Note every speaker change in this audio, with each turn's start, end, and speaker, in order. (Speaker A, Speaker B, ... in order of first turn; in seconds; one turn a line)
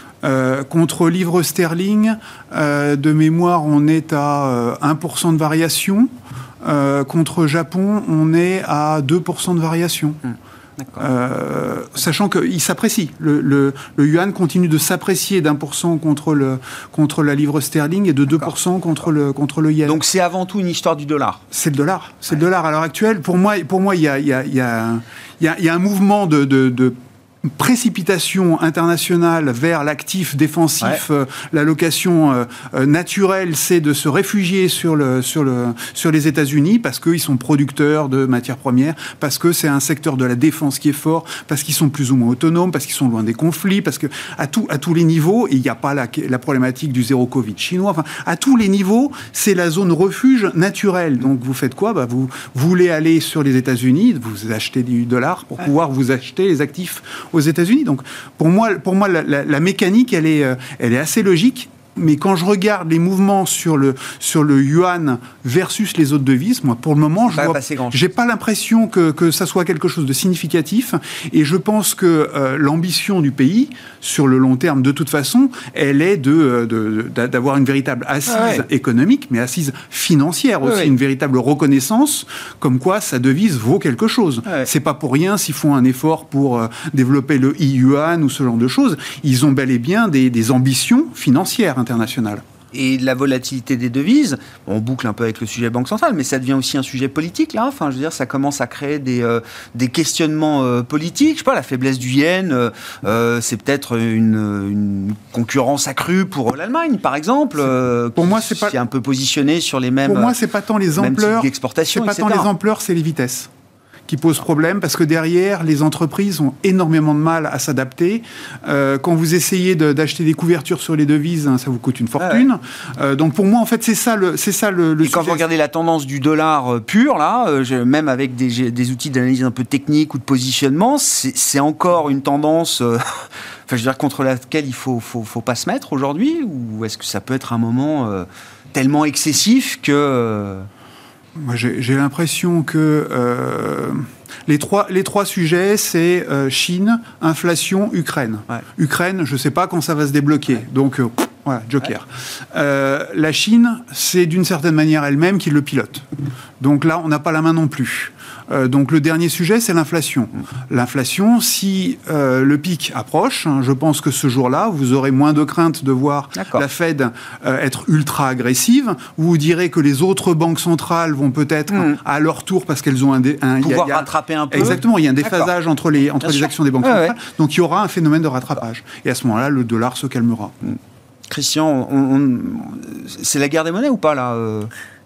Speaker A: 0.2-6.1
Speaker A: 6.6-10.2
Speaker B: 10.3-11.0
Speaker A: 11.0-20.0
Speaker B: 19.9-21.4
Speaker A: 21.5-92.4
Speaker B: 67.3-68.0
Speaker B: 78.3-78.7
Speaker B: 80.6-80.9
Speaker B: 92.7-110.3
Speaker A: 108.2-108.8
Speaker A: 110.0-113.5
Speaker B: 111.0-112.5
Speaker A: 114.1-125.5
Speaker B: 122.2-122.5
Speaker B: 125.0-140.7
Speaker A: 141.4-156.1
Speaker A: 156.6-180.6
Speaker B: 166.4-166.6
Speaker B: 173.6-175.5
Speaker B: 176.2-177.2
Speaker B: 181.3-184.7